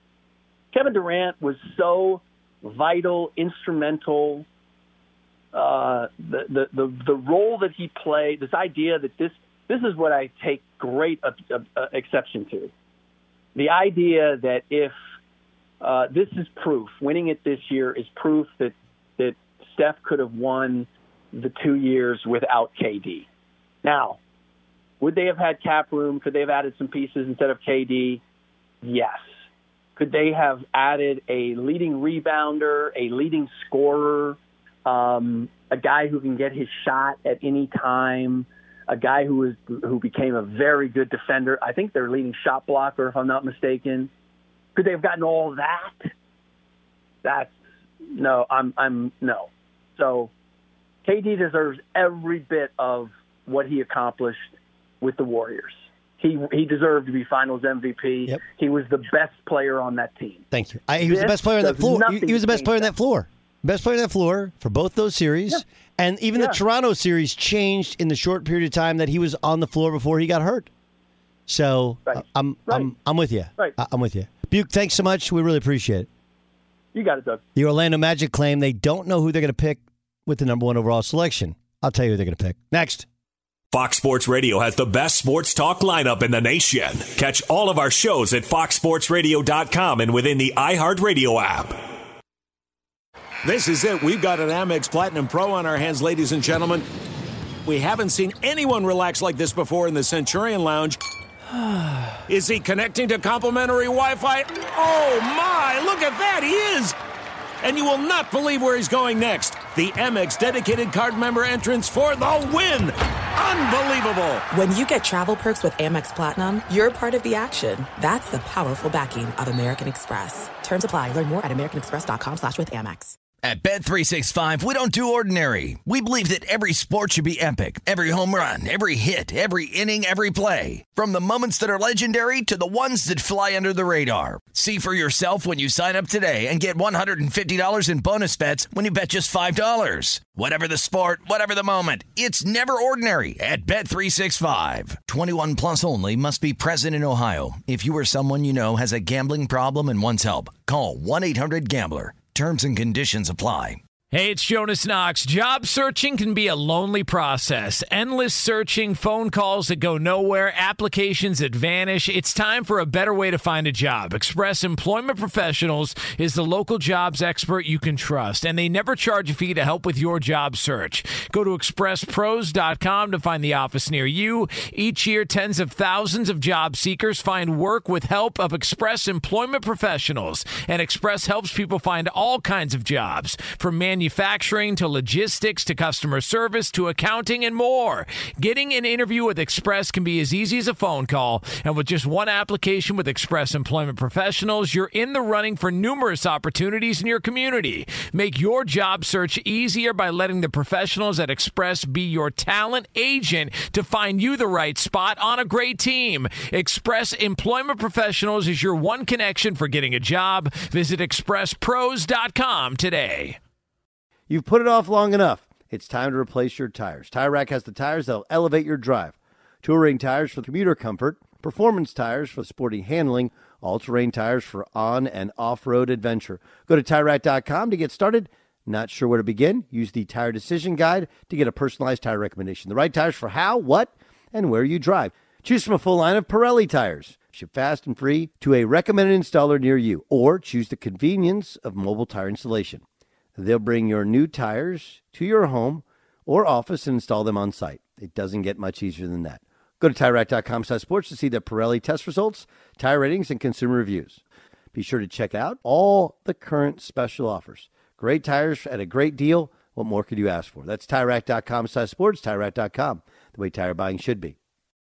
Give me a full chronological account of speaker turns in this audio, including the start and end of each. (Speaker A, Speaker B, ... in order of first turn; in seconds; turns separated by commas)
Speaker A: 0.7-4.5, Speaker A: 5.5-12.7, Speaker A: 13.5-14.9, Speaker A: 15.8-23.2, Speaker A: 23.8-24.2, Speaker A: 25.0-28.2, Speaker A: 28.8-29.4, Speaker A: 30.0-44.1, Speaker A: 44.8-46.1, Speaker A: 47.2-47.6, Speaker A: 48.1-50.3, Speaker A: 51.0-60.4, Speaker B: 60.5-70.7, Speaker A: 61.0-62.9, Speaker A: 66.3-66.6, Speaker B: 71.5-76.1, Speaker A: 72.1-72.9, Speaker A: 76.9-77.4, Speaker B: 77.5-83.1, Speaker C: 83.7-91.8, Speaker D: 93.4-96.8, Speaker D: 97.6-101.0, Speaker D: 102.2-107.0, Speaker D: 107.6-114.5, Speaker E: 114.5-123.2, Speaker F: 123.4-153.8, Speaker G: 154.1-213.4, Speaker B: 214.3-242.8, Speaker B: 243.3-254.2, Speaker B: 254.7-264.4